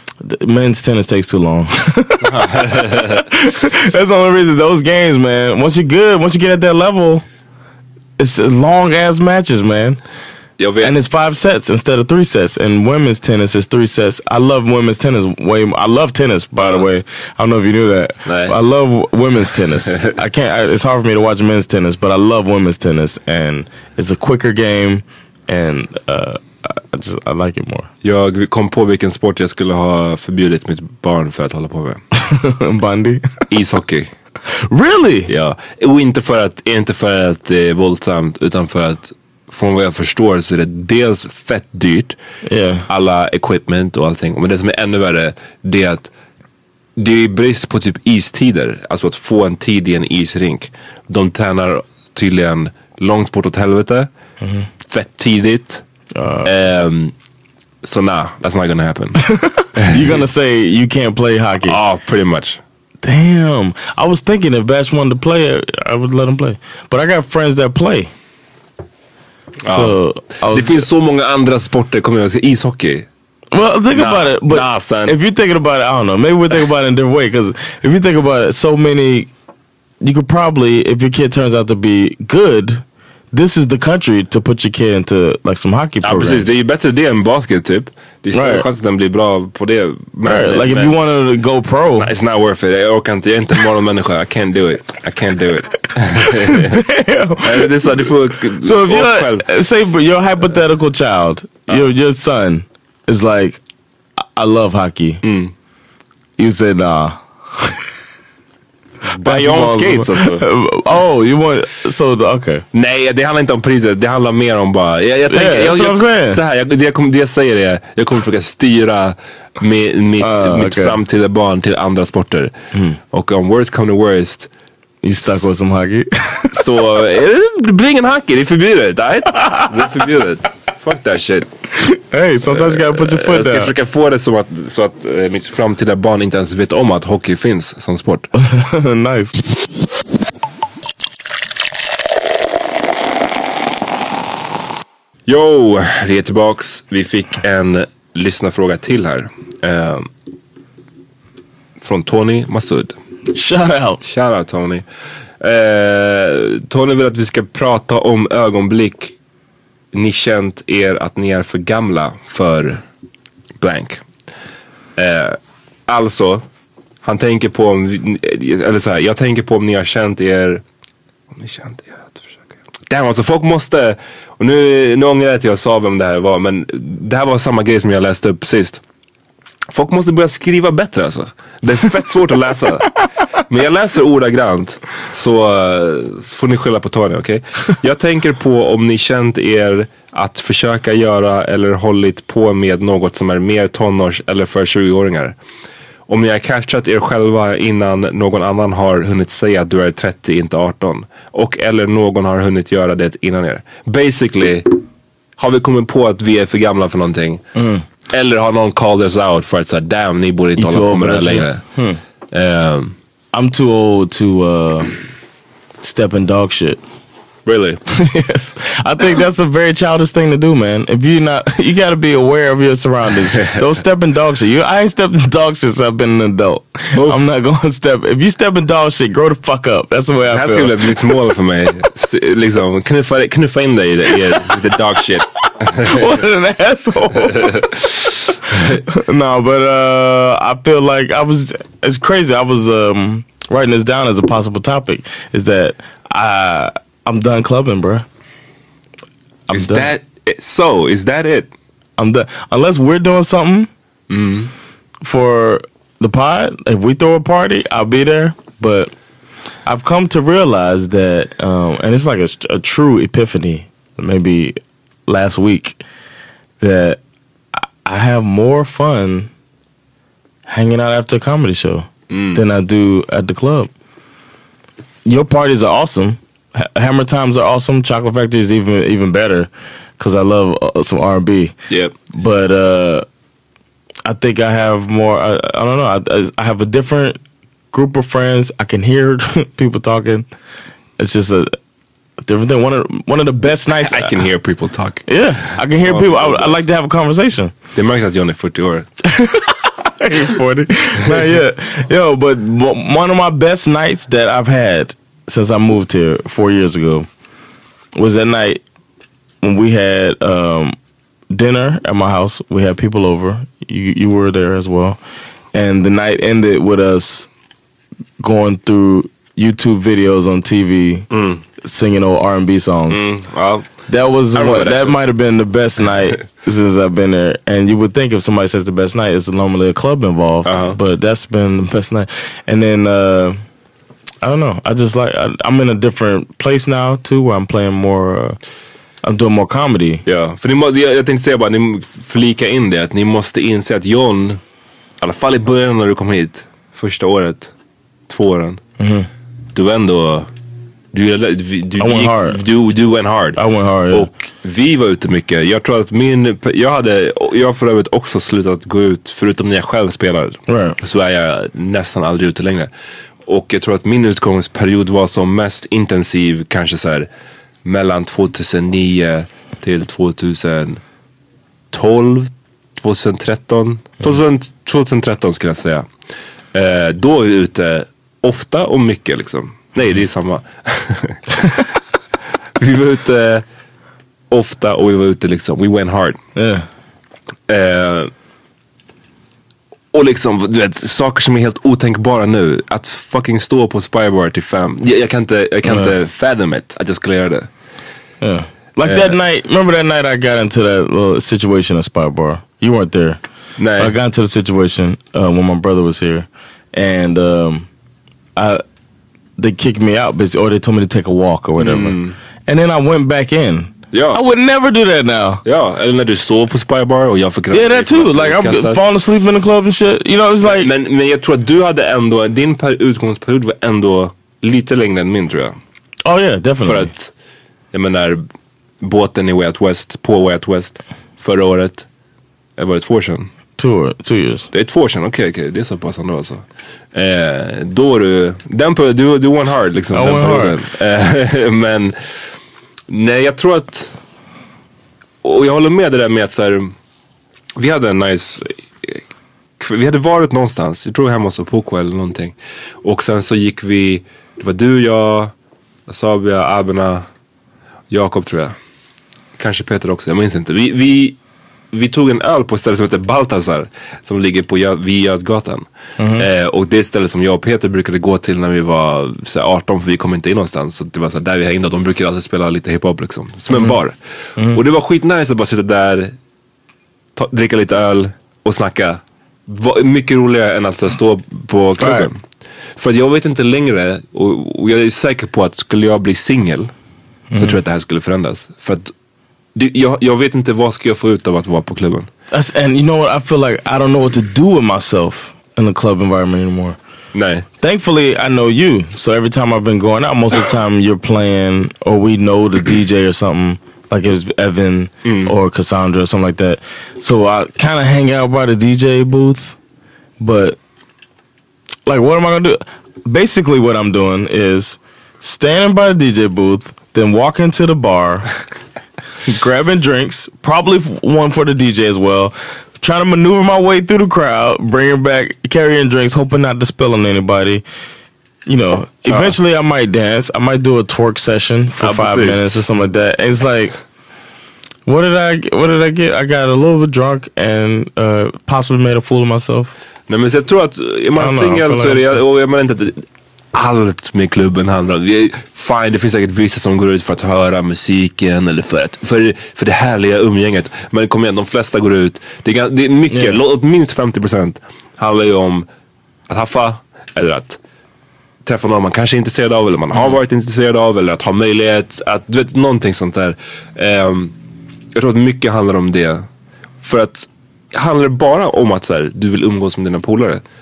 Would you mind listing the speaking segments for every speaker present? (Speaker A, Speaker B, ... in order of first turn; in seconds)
Speaker A: 0.2-7.2, 8.2-10.0, 10.8-27.9, 32.3-33.4, 34.7-35.3, 42.5-42.9, 54.4-54.7, 56.1-56.5, 59.3-61.8, 63.0-68.1, 69.7-70.8, 73.5-79.3, 80.0-86.5, 88.3-88.7, 90.2-92.1, 96.5-98.1, 98.6-103.6, 104.2-105.2, 106.4-107.8, 109.2-112.7, 115.3-116.4, 120.2-121.0, 125.0-126.7, 131.8-133.7, 138.4-139.5, 153.3-154.0, 207.6-207.8, 210.6-212.0, 213.3-215.0, 215.8-216.8, 218.0-230.9, 235.7-237.8, 238.6-248.1, 249.5-249.9, 252.0-253.7, 255.0-258.9, 259.7-265.8, 266.6-267.0, 267.6-269.3, 270.5-273.7, 275.1-281.6, 282.1-283.1, 284.1-287.2, 287.7-290.3, 291.0-291.6, 292.2-294.2, 295.1-297.5, 299.1-307.1, 308.0-308.6, 309.4-310.8, 311.3-315.0, 315.5-317.3, 318.2-321.1, 321.6-323.1, 323.9-333.4, 334.2-338.4, 339.0-340.0, 348.8-349.1, 351.8-352.4, 353.4-354.1, 360.5-360.8, 386.4-386.7, 395.6-395.9, 398.2-403.2, 403.8-407.7, 408.4-408.6, 409.4-415.4, 417.5-420.7, 426.1-426.9, 433.6-434.5, 439.9-440.6, 466.0-466.3, 473.5-473.8, 481.8-482.1, 487.3-487.6, 492.3-496.8, 497.6-509.6, 510.2-510.6, 511.9-518.3, 519.3-527.6, 528.5-533.8, 534.9-539.7, 541.2-542.2, 553.1-553.4
Speaker B: 2.2-3.3, 10.6-10.9, 16.6-16.9, 18.3-18.6, 28.0-32.0, 33.5-34.1, 35.3-42.2, 42.9-46.1, 47.0-54.1, 54.9-55.8, 56.4-57.1, 57.8-59.2, 59.8-60.2, 61.7-62.6, 69.7-70.0, 70.5-73.1, 73.9-75.2, 86.0-91.0, 91.9-96.8, 97.4-99.5, 105.2-105.5, 109.1-110.4, 112.7-122.5, 123.1-124.5, 126.5-131.5, 132.5-138.3, 145.3-150.1, 151.8-152.9, 154.0-154.8, 155.4-159.2, 159.9-162.8, 163.6-164.0, 165.0-166.4, 167.0-170.6, 171.3-178.8, 179.7-195.4, 196.1-204.8, 205.4-207.4, 208.1-211.7, 212.3-213.0, 217.5-217.8, 226.9-227.2, 230.3-236.1, 238.5-238.8, 249.5-251.5, 254.1-254.5, 272.1-272.4, 281.7-281.9, 293.8-296.6, 297.8-298.9, 321.1-321.4, 322.9-325.0, 330.4-330.8, 340.1-344.4, 345.0-347.5, 348.1-348.6, 349.6-350.3, 350.9-353.4, 353.9-362.7, 363.3-367.1, 367.6-370.8, 371.7-375.9, 376.5-381.2, 382.6-383.4, 384.3-386.2, 387.5-388.1, 389.9-397.5, 398.8-399.2, 403.6-403.9, 411.6-412.2, 413.9-414.2, 415.4-418.8, 420.4-425.6, 426.6-427.1, 427.7-428.2, 428.8-431.9, 432.6-433.3, 434.5-436.4, 436.9-442.3, 442.9-443.9, 445.2-446.8, 447.6-449.0, 449.6-455.3, 455.9-457.1, 457.9-458.6, 459.4-461.2, 461.7-474.0, 474.5-476.1, 477.2-482.2, 482.8-486.7, 487.4-488.9, 489.6-492.1, 497.1-497.5, 505.1-505.3, 529.1-529.3, 531.8-532.6, 540.1-555.7, 556.3-557.6, 558.4-564.4, 565.0-566.3, 566.8-570.4